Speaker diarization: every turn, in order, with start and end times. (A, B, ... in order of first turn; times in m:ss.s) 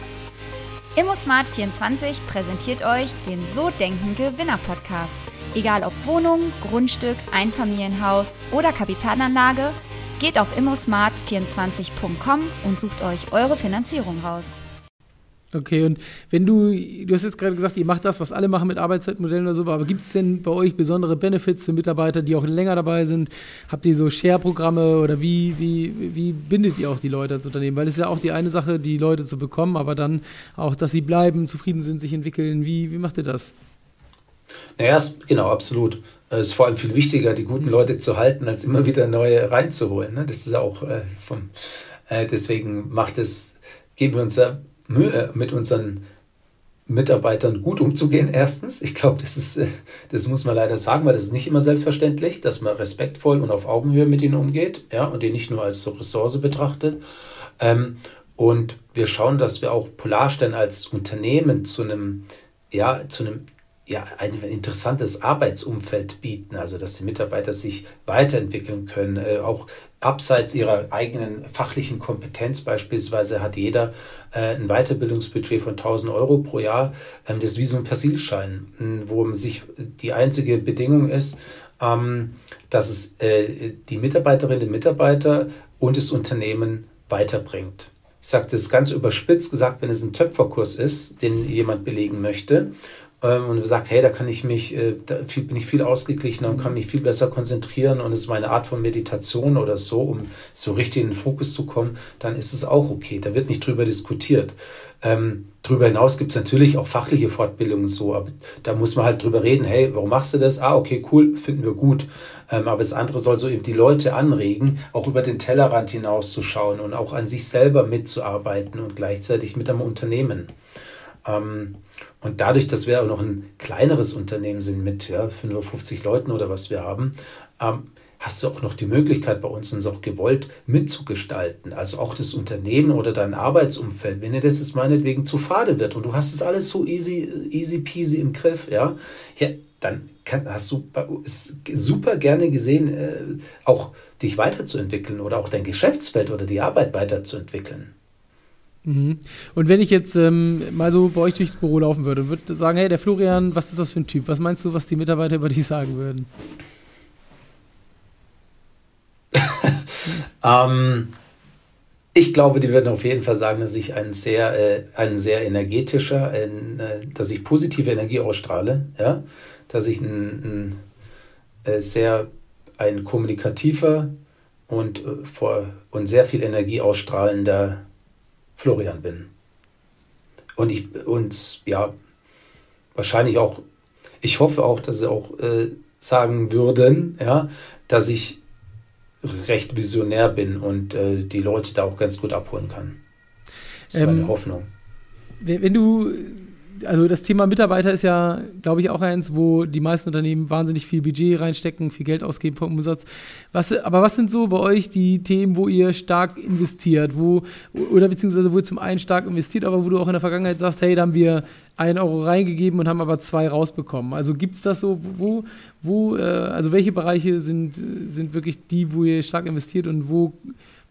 0:01.0-0:14.6 A
0:15.5-0:33.5 B
0:34.8-0:46.0 C
0:46.9-0:57.0 C
0:57.6-2:00.5 C
1:36.4-1:36.8 B
2:01.2-2:27.9 C
2:28.8-2:36.3 B
2:39.3-2:41.1 C
2:42.1-2:50.7 C
2:51.6-2:52.3 C
2:52.8-2:54.1 C
2:54.7-2:57.8 C
2:58.6-2:59.3 C
3:00.6-3:01.9 C
3:03.0-3:03.6 C
3:04.2-3:08.4 C
3:09.2-3:13.0 C
3:13.9-3:14.3 B
3:13.9-3:14.7 C
3:15.4-3:40.5 B